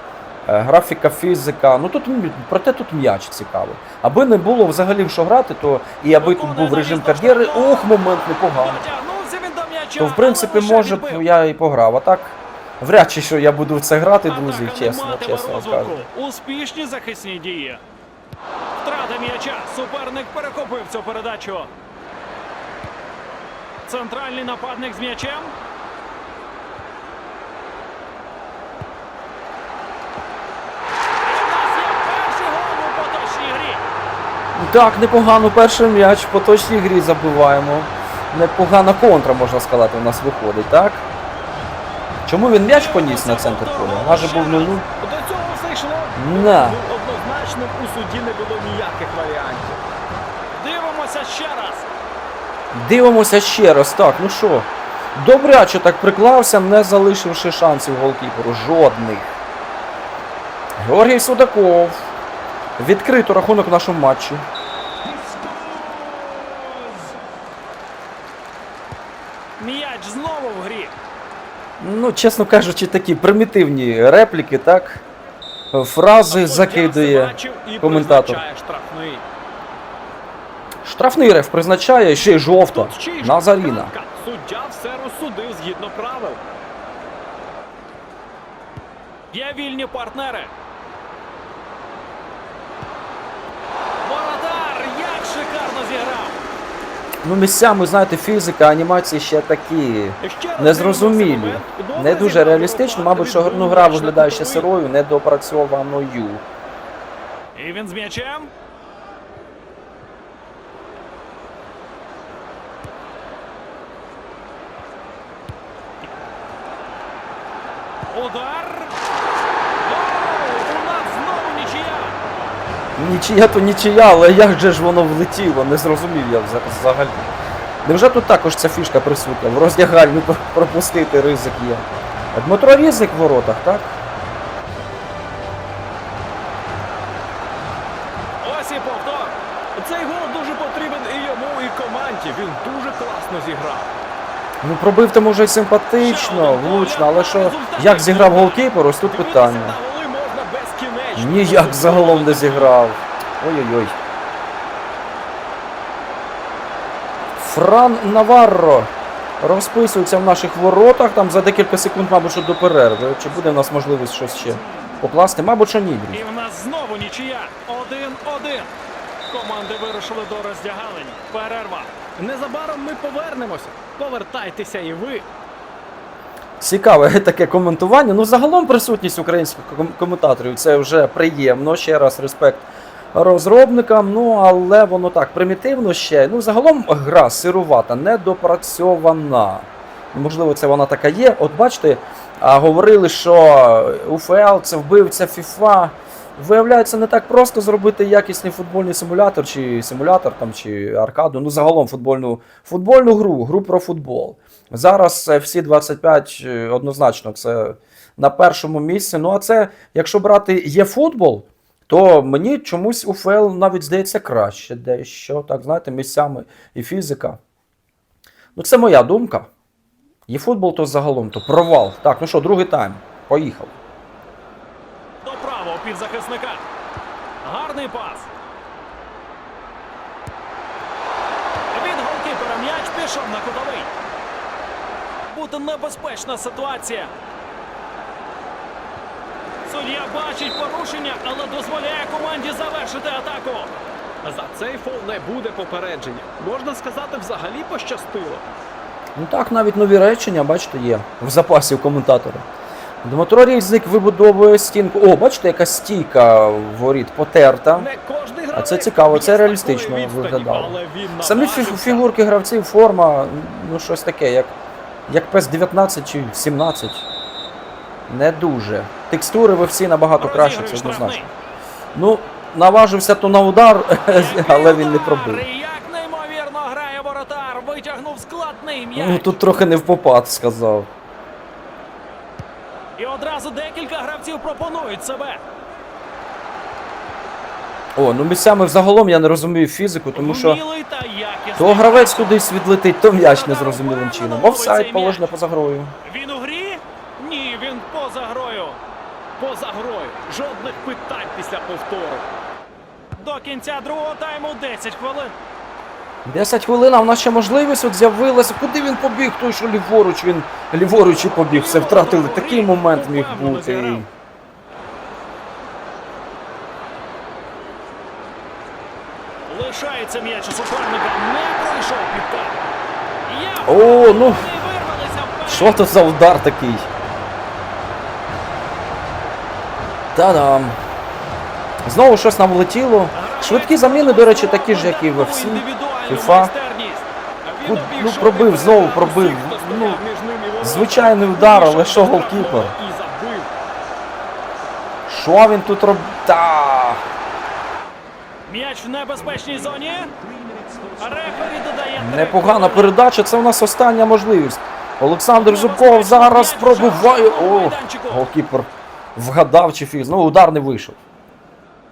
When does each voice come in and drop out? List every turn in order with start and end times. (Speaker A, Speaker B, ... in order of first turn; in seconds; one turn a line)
Speaker A: 0.5-8.8
Speaker B: 6.1-11.2
Speaker A: 10.0-16.0
Speaker B: 14.2-17.8
Speaker B: 18.8-21.7
Speaker B: 23.8-25.5
Speaker B: 31.2-33.8
Speaker A: 34.5-41.0
Speaker A: 42.2-44.9
Speaker B: 42.6-44.8
Speaker C: 45.0-49.8
Speaker A: 46.1-46.8
Speaker B: 50.5-51.9
Speaker A: 52.7-59.3
Speaker A: 60.8-62.0
Speaker A: 62.8-64.4
Speaker B: 69.6-70.9
Speaker A: 71.8-75.0
Speaker A: 75.7-78.4
Speaker C: 76.3-79.2
Speaker A: 80.8-83.9
Speaker C: 82.7-86.4
Speaker B: 89.3-90.5
Speaker B: 94.0-96.4
Speaker A: 97.2-106.4
Speaker C: 100.2-104.7
Speaker B: 107.5-108.5
Speaker B: 118.1-118.9
Speaker B: 119.8-122.2
Speaker A: 123.0-127.3
Speaker A: 127.8-134.0
Speaker B: 138.4-139.3
Speaker C: 139.7-143.9
Speaker A: 144.6-149.8
Speaker B: 145.9-148.7
Speaker C: 149.0-152.8
Speaker A: 151.2-153.9
Speaker A: 157.4-158.9
Speaker A: 159.4-166.2
Speaker B: 166.1-168.7
Speaker B: 169.3-171.9
Speaker C: 172.2-175.2
Speaker A: 176.6-217.4
Speaker A: 218.5-219.5
Speaker A: 220.3-223.8
Speaker B: 225.2-226.6
Speaker B: 227.4-228.3
Speaker B: 231.7-233.9
Speaker B: 235.3-237.1
Speaker B: 239.7-243.7
Speaker C: 244.2-248.4
Speaker A: 249.2-252.4
Speaker A: 253.0-257.9
Speaker C: 257.7-262.1
Speaker A: 258.5-264.5
Speaker A: 265.1-267.1
Speaker A: 268.1-271.2
Speaker B: 270.2-271.3
Speaker A: 271.9-275.4
Speaker B: 274.1-279.4
Speaker A: 278.9-280.9
Speaker B: 283.0-285.4
Speaker A: 287.9-290.6
Speaker B: 290.1-292.4
Speaker A: 291.6-295.9
Speaker B: 293.1-295.3
Speaker B: 296.0-298.8
Speaker C: 299.4-302.3
Speaker B: 303.2-305.3
Speaker A: 306.2-314.1
Speaker B: 311.2-314.1
Speaker B: 319.5-322.6
Speaker B: 323.2-325.9
Speaker A: 323.6-324.5
Speaker A: 325.4-326.9
Speaker A: 330.1-330.8
Speaker A: 331.9-336.5
Speaker B: 333.1-337.1
Speaker C: 337.4-343.5
Speaker A: 337.6-340.0
Speaker A: 340.6-342.7
Speaker A: 345.1-347.0
Speaker B: 348.5-350.1
Speaker B: 351.0-352.9
Speaker A: 352.0-361.0
Speaker B: 355.3-358.2